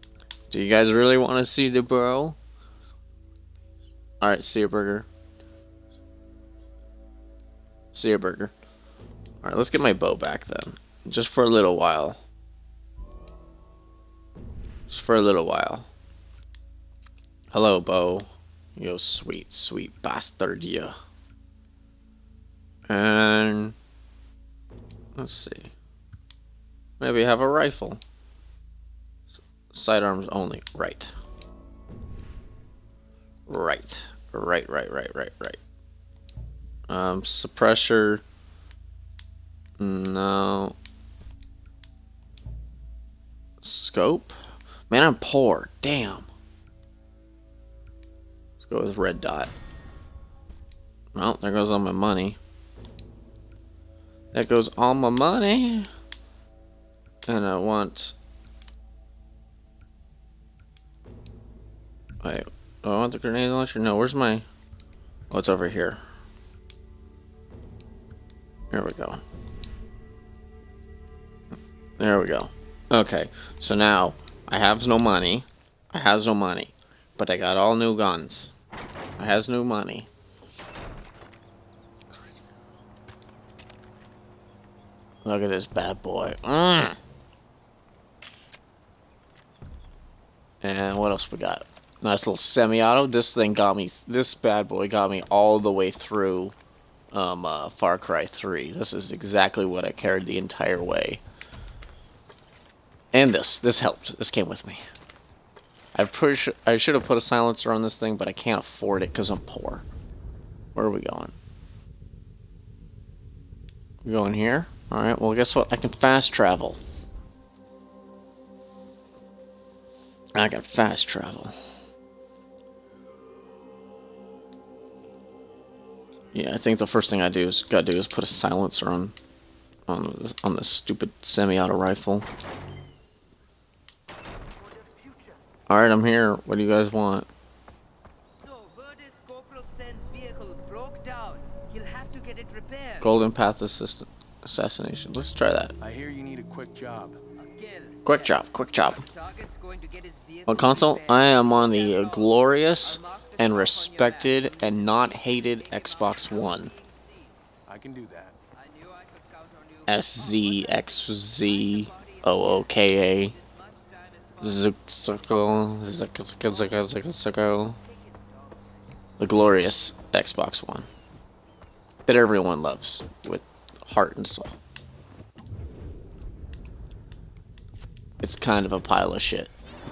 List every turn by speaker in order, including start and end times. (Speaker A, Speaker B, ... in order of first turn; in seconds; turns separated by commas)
Speaker A: 0.5-2.4, Speaker A: 4.2-5.1, Speaker A: 7.9-8.5, Speaker A: 9.4-12.2, Speaker A: 14.9-15.9, Speaker A: 17.5-20.9, Speaker A: 22.9-23.8, Speaker A: 25.2-25.7, Speaker A: 27.0-28.0, Speaker A: 29.4-31.1, Speaker A: 33.5-35.6, Speaker A: 36.9-38.2, Speaker A: 39.8-40.8, Speaker A: 43.6-44.4, Speaker A: 44.9-46.3, Speaker A: 48.6-49.5, Speaker A: 51.1-52.4, Speaker A: 54.3-55.9, Speaker A: 57.3-58.1, Speaker A: 62.2-64.5, Speaker A: 65.3-66.0, Speaker A: 68.7-69.2, Speaker A: 72.0-78.5, Speaker A: 79.2-80.1, Speaker A: 85.2-87.0, Speaker A: 90.6-96.5, Speaker A: 97.1-101.2, Speaker A: 103.1-104.8, Speaker A: 106.0-109.8, Speaker A: 110.8-111.4, Speaker A: 114.0-116.8, Speaker A: 120.3-121.6, Speaker A: 126.3-129.2, Speaker A: 129.9-132.3, Speaker B: 134.6-135.4, Speaker A: 135.7-137.3, Speaker B: 138.4-143.2, Speaker A: 143.0-145.7, Speaker C: 145.8-147.2, Speaker B: 147.4-157.3, Speaker A: 148.1-149.1, Speaker A: 150.5-156.7, Speaker C: 157.7-158.4, Speaker B: 158.6-165.4, Speaker A: 159.9-163.3, Speaker A: 164.4-167.8, Speaker B: 166.4-169.4, Speaker A: 169.2-170.9, Speaker A: 172.1-174.6, Speaker A: 178.2-179.5